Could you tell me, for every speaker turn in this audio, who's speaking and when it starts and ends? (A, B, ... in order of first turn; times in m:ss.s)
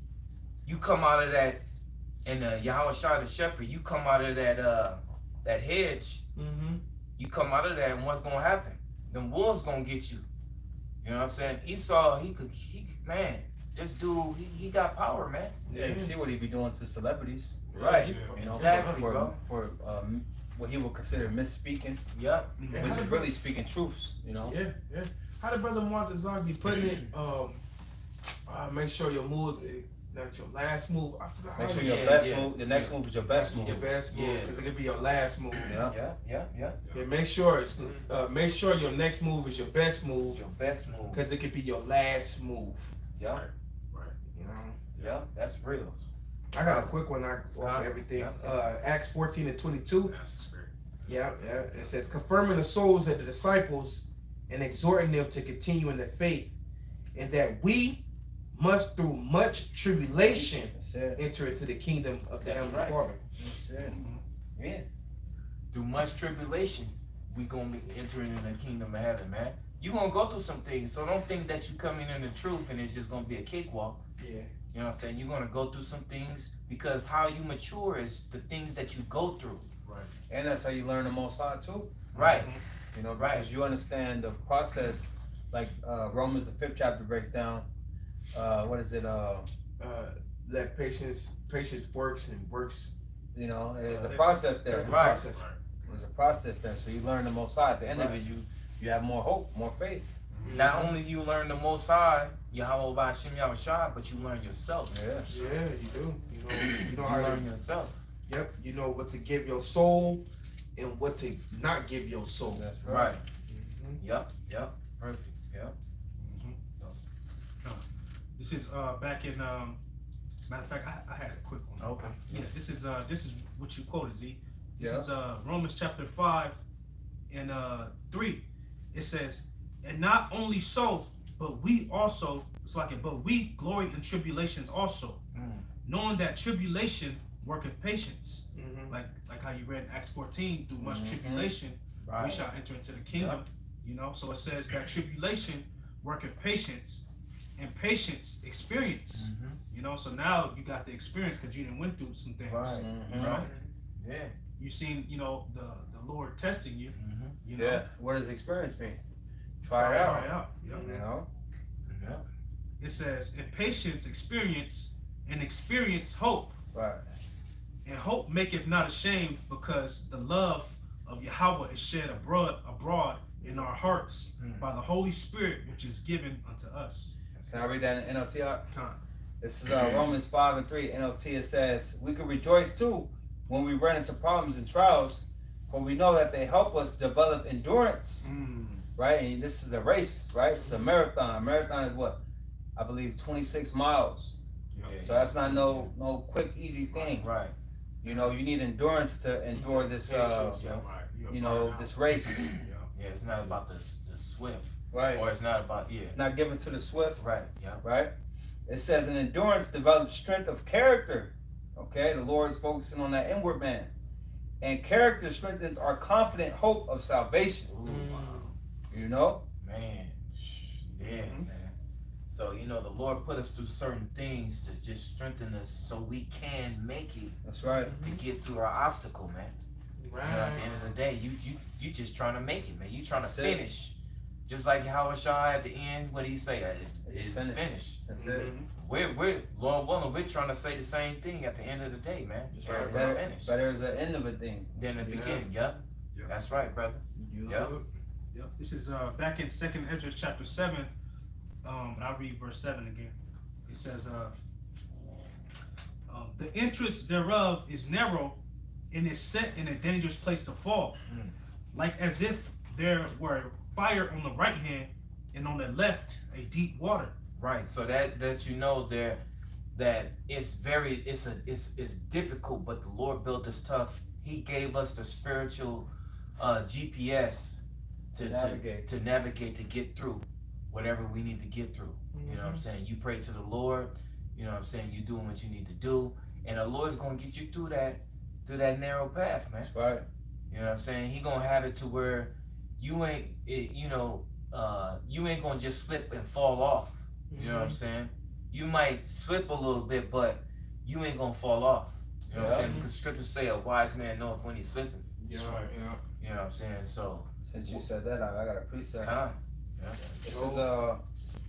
0:00.6-0:01.6 A
0:02.2-0:06.2 A
0:06.4-0:06.8 B
0:07.2-0:10.2 A
0:11.0-0:15.6 A
0:15.7-0:16.2 B
0:15.7-0:17.6 C
0:17.7-0:18.7 D
0:17.7-0:19.0 B
0:17.7-0:19.4 A
0:18.4-0:22.0 C
0:22.1-0:22.5 A
0:22.6-0:23.2 D
0:22.7-0:23.3 B
0:22.8-0:24.6 C
0:24.4-0:27.6 B
0:26.6-0:26.9 D
0:26.6-0:27.1 A
0:28.5-0:32.2 B
0:31.6-0:33.9 C
0:31.8-0:34.6 A
0:33.4-0:35.8 B
0:35.6-0:36.0 C
0:35.6-0:36.8 A
0:36.8-0:37.1 D
0:36.9-0:40.4 B
0:40.3-0:41.2 A
0:41.1-0:42.9 B
0:43.2-0:43.4 A
0:43.2-0:44.2 D
0:44.3-0:44.8 B
0:45.0-0:46.1 A
0:46.5-0:50.1 B
0:46.6-0:47.0 A
0:47.6-0:48.5 A
0:50.0-0:51.1 D
0:51.1-0:56.6 B
0:57.1-1:03.2 B
1:00.2-1:01.2 C
1:02.4-1:03.0 A
1:03.4-1:04.0 C
1:03.8-1:04.2 D
1:05.7-1:14.0 A
1:14.2-1:14.5 B
1:14.7-1:19.7 A
1:19.8-1:20.1 D
1:20.3-1:22.0 C
1:22.1-1:22.5 A
1:22.1-1:22.6 D
1:22.9-1:27.7 C
1:23.1-1:23.5 A
1:28.3-1:29.5 C
1:29.8-1:32.9 B
1:33.3-1:35.2 C
1:33.8-1:35.5 B
1:34.0-1:35.6 D
1:34.7-1:35.3 A
1:35.8-1:40.1 C
1:37.9-1:38.2 A
1:40.3-1:40.7 D
1:40.4-1:41.0 B
1:40.5-1:45.0 A
1:44.9-1:45.3 C
1:45.3-1:47.5 B
1:46.5-1:48.0 A
1:48.3-1:52.7 B
1:52.5-1:53.1 C
1:52.8-1:53.2 A
1:53.5-1:54.0 B
1:54.0-1:55.8 A
1:56.2-1:56.6 D
1:58.4-1:59.8 D
2:00.5-2:06.6 D
2:01.8-2:02.5 A
2:04.8-2:05.1 C
2:07.3-2:15.2 D
2:15.3-2:15.6 A
2:15.8-2:27.0 D
2:18.6-2:19.0 B
2:20.8-2:21.5 C
2:22.0-2:22.5 A
2:23.1-2:23.4 A
2:27.6-2:33.5 D
2:29.1-2:29.6 A
2:32.5-2:34.4 A
2:32.7-2:33.5 C
2:34.6-2:37.8 D
2:36.9-2:37.4 A
2:37.6-2:39.0 C
2:39.6-2:41.3 C
2:39.7-2:40.8 D
2:40.7-2:41.1 B
2:41.9-2:42.2 A
2:42.8-2:46.6 D
2:46.7-2:47.0 C
2:47.8-2:57.1 D
2:53.4-2:53.7 B
2:54.4-2:54.7 A
2:57.4-2:57.7 A
2:57.5-2:58.7 C
2:58.7-2:59.0 D
2:59.4-3:08.3 C
3:08.2-3:08.9 D
3:09.0-3:12.2 C
3:10.6-3:10.9 B
3:12.8-3:14.4 C
3:14.7-3:15.0 D
3:14.8-3:15.9 A
3:15.0-3:17.3 C
3:17.0-3:17.5 A
3:18.0-3:20.6 C
3:18.1-3:18.3 A
3:19.5-3:22.9 D
3:20.1-3:20.9 A
3:21.3-3:22.5 C
3:22.9-3:26.2 A
3:24.9-3:25.2 C
3:26.1-3:27.2 C
3:27.2-3:27.8 A
3:27.8-3:28.1 C
3:28.7-3:33.9 C
3:34.6-3:37.7 C
3:37.7-3:38.5 A
3:37.8-3:38.5 B
3:38.9-3:39.4 C
3:39.6-3:41.7 A
3:41.0-3:41.4 D
3:42.3-3:47.4 A
3:47.4-3:47.9 C
3:47.6-3:48.2 B
3:48.0-3:49.5 A
3:50.0-3:50.6 B
3:50.2-3:58.0 A
3:53.1-3:53.6 C
3:57.0-3:58.5 C
3:58.2-3:58.6 B
3:58.3-3:58.7 D
3:58.8-4:03.6 A
4:02.5-4:03.2 B
4:02.6-4:04.7 C
4:04.7-4:07.8 A
4:05.0-4:05.4 B
4:07.2-4:07.9 B
4:08.3-4:10.9 D
4:11.6-4:13.2 D
4:13.7-4:14.4 D
4:16.1-4:18.4 D
4:18.9-4:21.0 D
4:21.1-4:21.3 A
4:21.7-4:27.1 D
4:27.4-4:29.2 A
4:29.7-4:37.6 A
4:38.1-4:49.7 A
4:38.2-4:38.9 C
4:42.1-4:42.6 B
4:49.6-4:50.1 C
4:50.5-5:07.8 A
4:57.3-4:57.8 B
5:02.3-5:02.7 C
5:02.3-5:02.9 B
5:05.2-5:06.0 B
5:07.5-5:09.2 C
5:09.0-5:10.0 A
5:10.0-5:10.7 B
5:10.2-5:11.0 C